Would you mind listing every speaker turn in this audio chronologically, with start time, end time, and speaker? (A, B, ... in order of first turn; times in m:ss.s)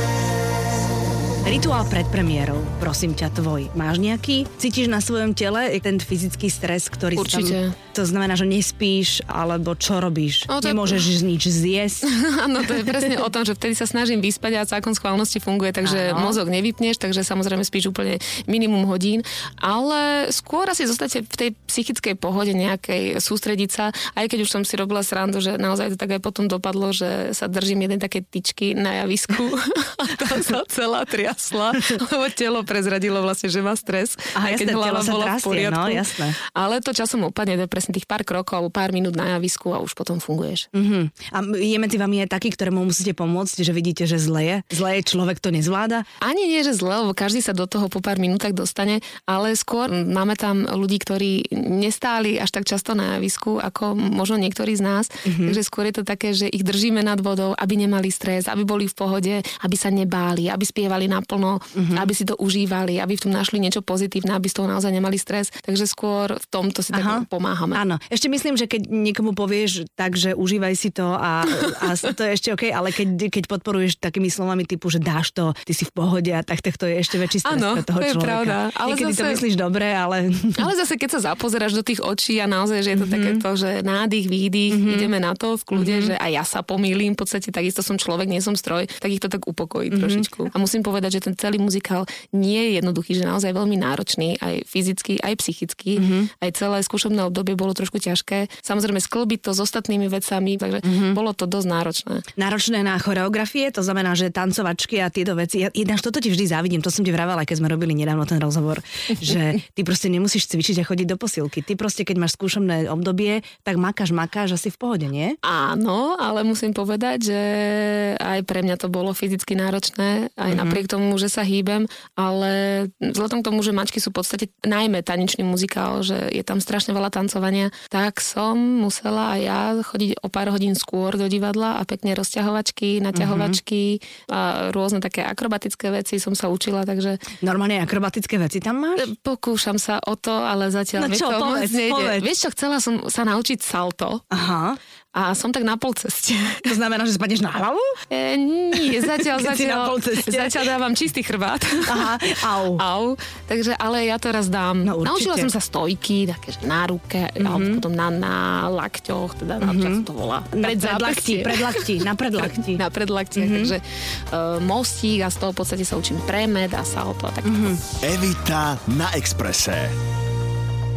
0:01.4-0:12.0 A
0:07.2-0:07.8 B
0:10.5-0:11.0 B
0:12.0-0:40.7 B
0:15.8-0:16.4 A
0:34.3-0:36.4 A
0:40.7-0:46.0 A
0:46.2-1:07.8 B
0:55.2-0:55.6 A
1:01.7-1:02.1 A
1:06.9-1:20.7 A
1:17.4-1:19.4 B
1:20.6-1:42.2 B
1:22.9-1:23.4 A
1:24.7-1:25.1 A
1:25.7-1:26.2 A
1:29.9-1:30.5 A
1:36.0-1:36.3 A
1:40.8-1:41.2 A
1:42.4-1:55.4 A
1:55.4-2:17.3 B
2:00.5-2:00.8 A
2:13.1-2:13.6 A
2:17.4-2:19.1 A
2:19.0-2:24.2 B
2:20.9-2:22.3 A
2:24.3-2:24.8 A
2:25.1-2:26.7 B
2:26.6-2:28.0 A
2:28.1-2:47.8 B
2:28.7-2:30.7 A
2:31.8-2:32.8 A
2:34.8-2:35.5 A
2:37.4-2:37.8 A
2:39.6-2:42.8 A
2:43.3-2:43.7 A
2:47.4-2:47.8 A
2:48.0-2:49.9 C